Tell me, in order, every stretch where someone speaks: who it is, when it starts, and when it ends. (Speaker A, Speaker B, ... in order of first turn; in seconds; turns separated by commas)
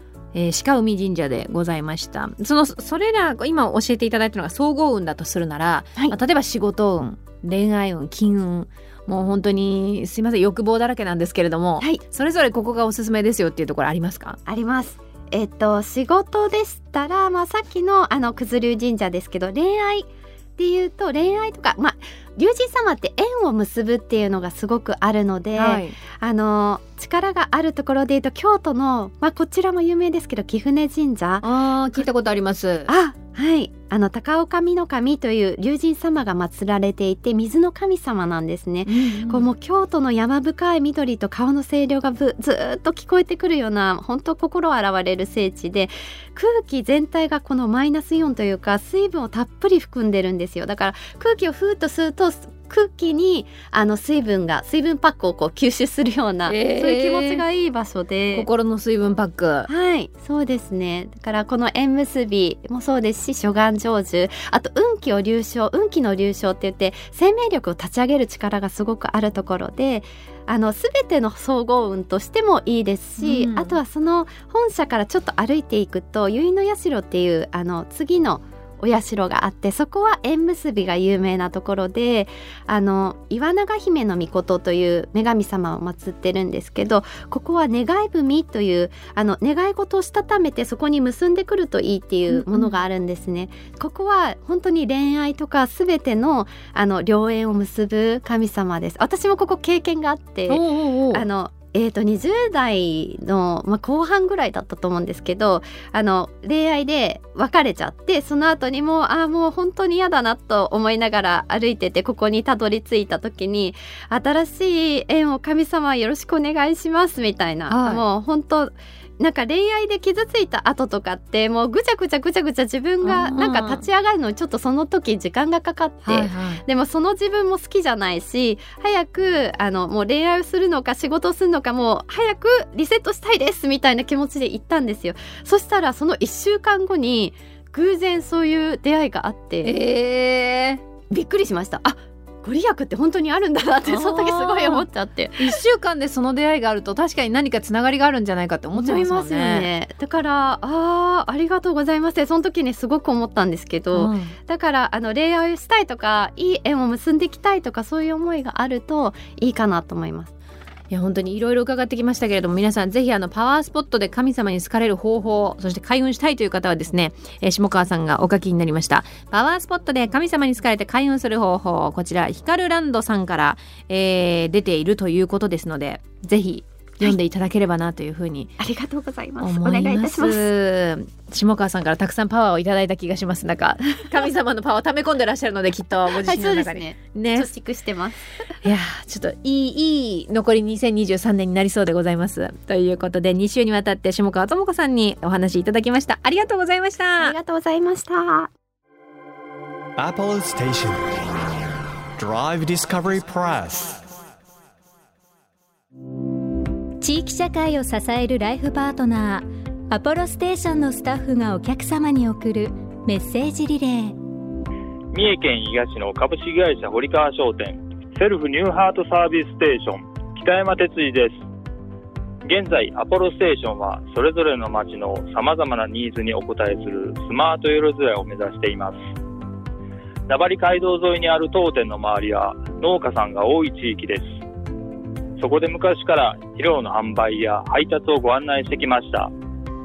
Speaker A: 0.3-14.4, Speaker B: 14.4-32.0, Speaker A: 25.6-25.9, Speaker A: 31.4-32.9, Speaker B: 32.9-58.5, Speaker A: 38.9-39.5, Speaker A: 56.5-57.4, Speaker A: 58.3-59.7, Speaker B: 59.7-139.8, Speaker A: 73.2-73.8, Speaker A: 92.3-92.8, Speaker A: 100.5-101.2, Speaker A: 117.7-118.0, Speaker A: 123.0-123.8, Speaker A: 126.0-126.6, Speaker A: 139.6-140.8, Speaker B: 141.1-145.6, Speaker A: 143.8-144.9, Speaker A: 145.4-149.7, Speaker B: 148.7-160.3, Speaker A: 153.9-154.3, Speaker A: 160.9-178.5, Speaker B: 178.6-180.5, Speaker A: 179.4-187.5, Speaker B: 186.1-188.3, Speaker A: 188.6-197.4, Speaker B: 197.2-198.5, Speaker C: 200.0-201.2, Speaker C: 202.2-204.0, Speaker D: 207.0-214.2, Speaker E: 215.1-221.3, Speaker E: 222.4-229.0, Speaker E: 230.3-234.3, Speaker E: 235.4-239.3